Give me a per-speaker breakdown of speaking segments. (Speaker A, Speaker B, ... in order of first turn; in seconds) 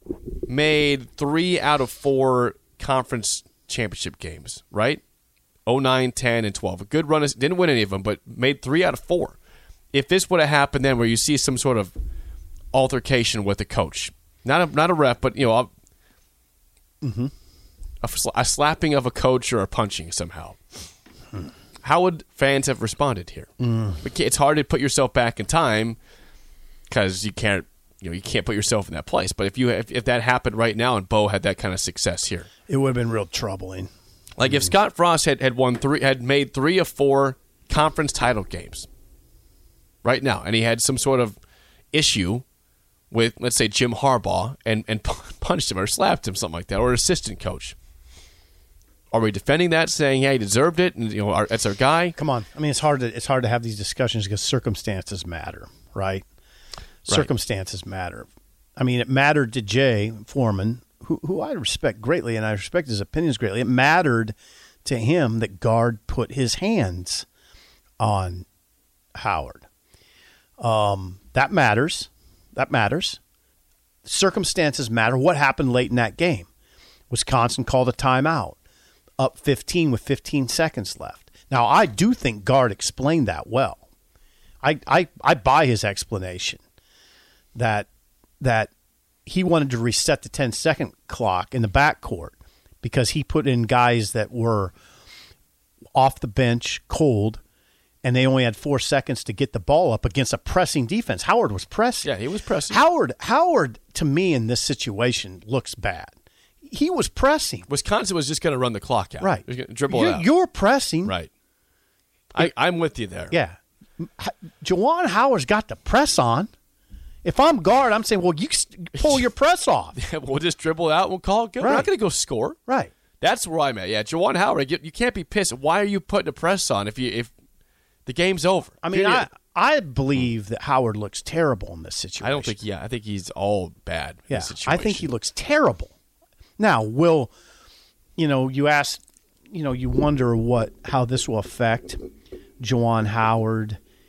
Speaker A: 0.4-5.0, 5.7-9.4, 9.9-11.9, 12.7-15.7, 18.0-20.6, 21.8-26.0, 26.9-32.5, 34.4-38.9, 40.0-41.4, 41.9-42.4, 43.1-47.7, 49.1-52.2, 102.0-102.8, 107.7-110.3, 111.0-111.3, 112.3-113.3, 119.0-119.2, 119.9-122.6, 123.2-127.3, 128.1-129.3, 132.2-135.1
Speaker B: 17.0-17.3, 23.6-24.0, 32.7-33.9, 34.4-34.7, 52.1-56.2, 57.0-58.3, 58.8-67.2, 68.0-68.5, 69.1-69.7, 70.6-73.2, 74.0-76.5, 77.1-78.6, 79.2-83.8, 84.6-86.6, 87.5-87.9, 88.4-88.7, 89.2-94.7, 95.9-97.4, 98.0-102.1, 102.7-106.1, 106.6-107.7, 109.2-111.1, 113.3-116.5, 117.2-120.0, 121.6-121.9, 122.7-122.9, 128.8-132.6, 134.3-135.9, 136.6-137.3, 138.2-142.0, 142.6-143.8